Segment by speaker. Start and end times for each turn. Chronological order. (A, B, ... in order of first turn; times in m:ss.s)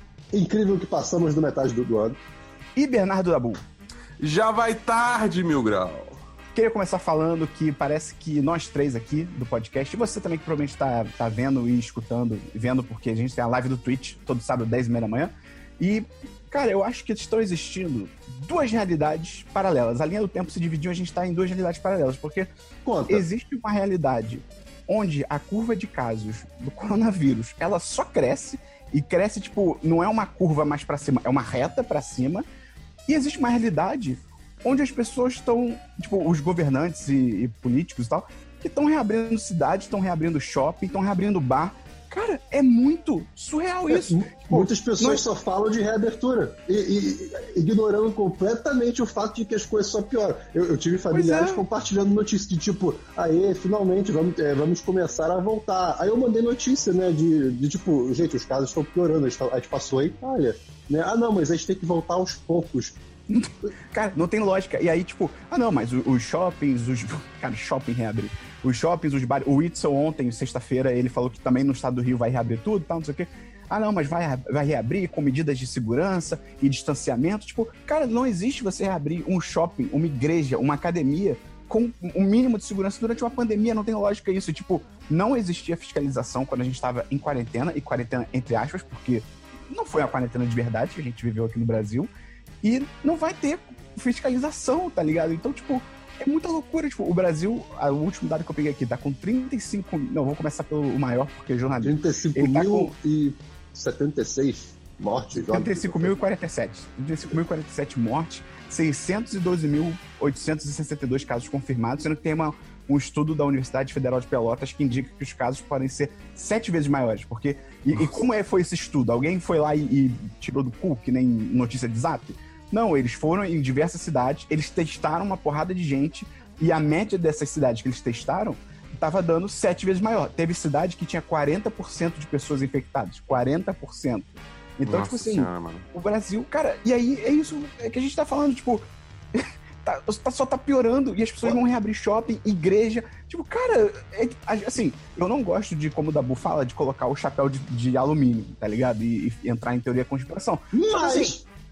0:00.3-0:02.2 A
0:02.8-0:03.6 B
0:04.2-0:06.2 C
0:06.5-0:22.5 B
0:22.8-0:23.2 A
0:23.1-0:32.4 B
0:33.1-0:45.2 B
0:43.9-1:03.0 A
0:51.1-0:51.6 B
1:03.3-1:32.1 B
1:32.6-1:42.9 B
1:41.8-1:46.2 A
1:45.3-2:31.3 B
2:14.8-2:15.8 C
2:30.7-2:31.4 A